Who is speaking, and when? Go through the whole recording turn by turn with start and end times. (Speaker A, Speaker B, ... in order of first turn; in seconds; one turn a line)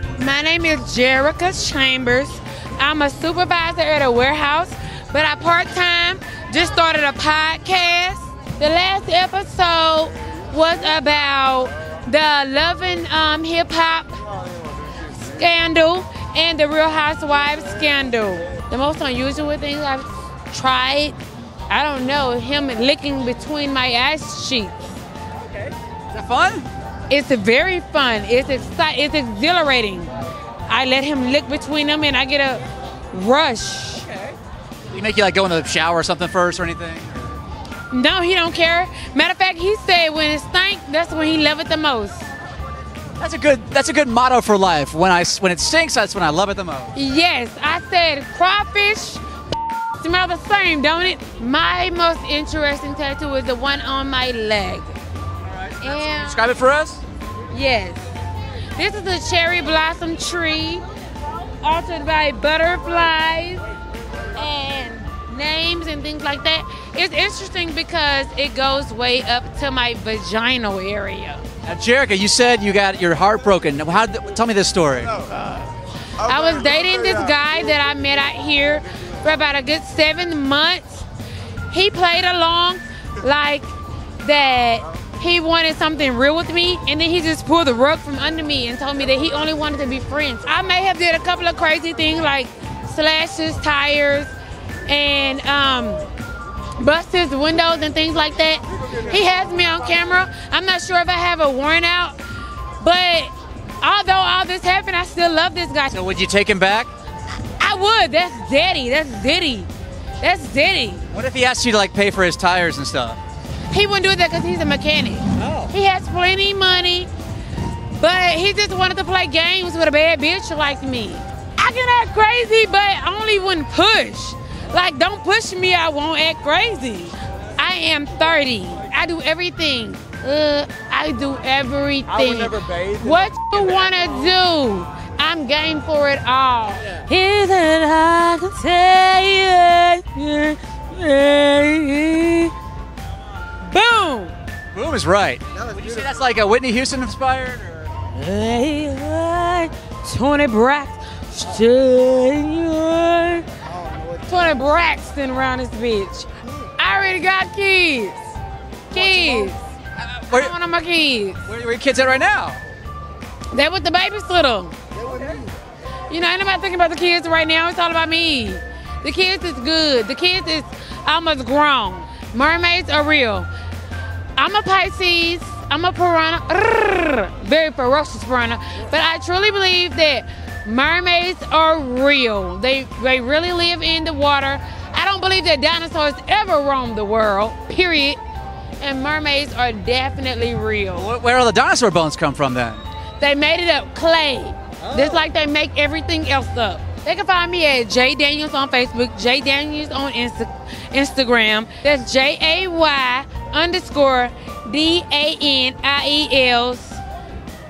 Speaker A: 0.2-14.2
Speaker A: 15.0-21.2
Speaker A: 21.7-24.9
Speaker B: 25.5-26.7
Speaker A: 27.1-30.1
Speaker A: 30.7-34.1
Speaker B: 34.9-37.3
Speaker A: 37.9-42.3
Speaker B: 43.2-46.9
Speaker A: 46.9-49.2
Speaker A: 49.9-55.0
Speaker B: 55.5-57.0
Speaker A: 55.8-56.5
Speaker A: 57.5-58.0
Speaker A: 58.8-60.8
Speaker A: 61.6-63.6
Speaker A: 64.3-71.4
Speaker B: 71.6-75.3
Speaker A: 76.2-81.1
Speaker A: 81.7-94.3
Speaker A: 94.9-96.0
Speaker A: 96.8-102.2
Speaker A: 102.8-106.0
Speaker B: 105.9-106.9
Speaker A: 107.6-109.7
Speaker A: 110.2-111.1
Speaker B: 111.1-113.2
Speaker A: 113.7-117.1
Speaker B: 115.4-115.7
Speaker A: 118.0-142.5
Speaker A: 143.6-144.3
Speaker B: 144.7-147.9
Speaker A: 148.1-153.5
Speaker A: 154.2-158.2
Speaker A: 158.9-159.6
Speaker B: 158.9-160.5
Speaker A: 160.3-161.4
Speaker B: 161.4-162.6
Speaker A: 163.5-164.8
Speaker A: 166.1-173.5
Speaker A: 174.3-188.2
Speaker A: 188.8-191.1
Speaker B: 190.9-192.8
Speaker A: 193.2-207.0